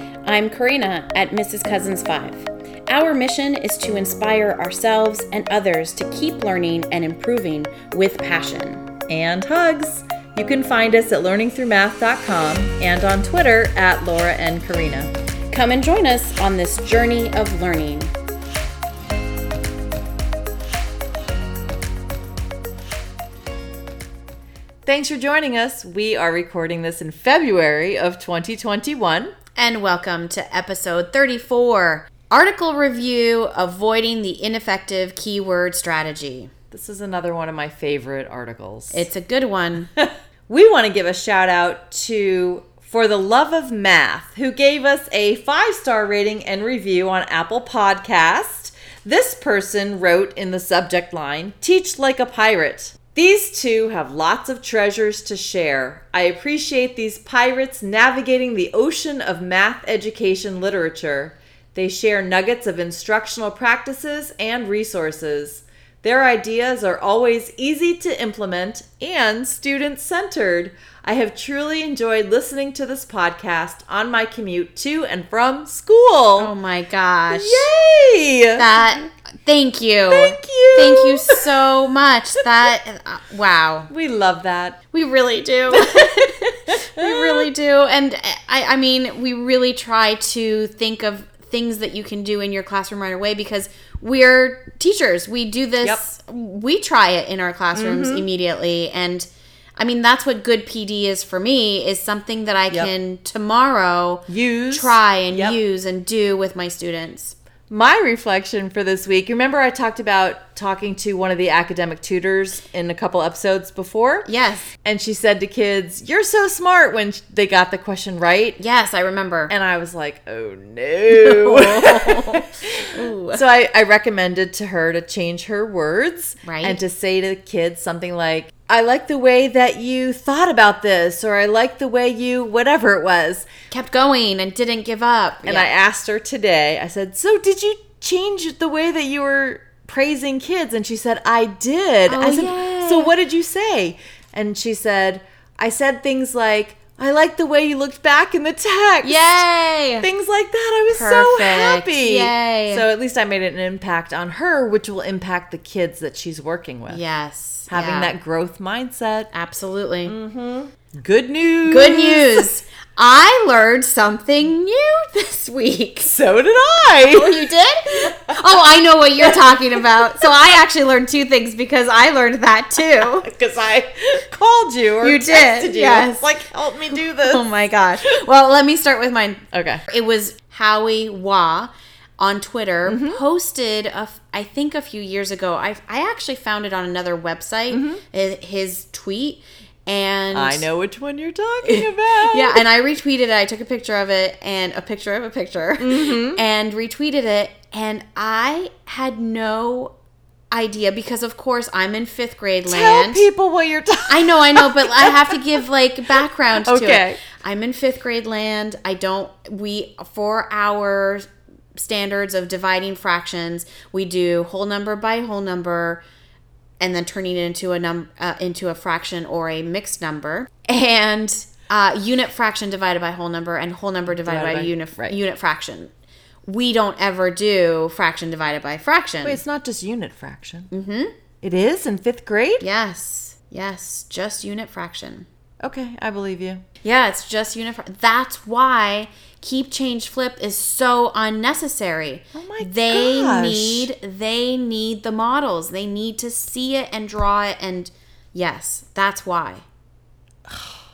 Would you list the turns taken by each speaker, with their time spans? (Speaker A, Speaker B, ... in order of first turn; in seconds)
Speaker A: 0.2-8.8, 15.5-18.1, 29.6-36.5, 38.9-39.9, 76.4-77.7, 78.6-83.9, 84.9-107.3, 114.2-114.7, 118.6-119.5, 121.1-123.4, 126.4-126.8, 133.7-135.7, 142.1-143.1, 149.0-150.1, 150.9-152.8, 156.9-158.1, 159.3-160.1, 161.7-166.1, 167.0-173.3, 175.0-176.3, 176.9-190.7, 191.6-199.9, 200.5-203.2, 204.1-216.0, 216.8-225.9, 226.4-229.4, 230.7-231.1, 232.6-235.3, 236.8-249.6
Speaker B: 9.1-15.1, 24.8-29.3, 36.7-39.0, 40.0-76.5, 77.3-78.7, 80.1-81.5, 83.9-84.8, 85.7-87.5, 97.7-98.2, 104.3-105.6, 107.7-114.3, 114.8-118.6, 119.5-133.5, 135.4-149.4, 150.0-157.0, 157.7-159.3, 160.1-162.4, 166.0-167.5, 169.2-169.6, 173.0-177.4, 179.5-179.8, 182.9-183.2, 187.7-188.0, 190.3-192.6, 195.8-196.4, 202.7-205.4, 206.5-207.2, 224.1-225.2, 229.2-230.7, 231.4-232.7, 235.6-236.6, 242.3-243.9, 250.5-250.8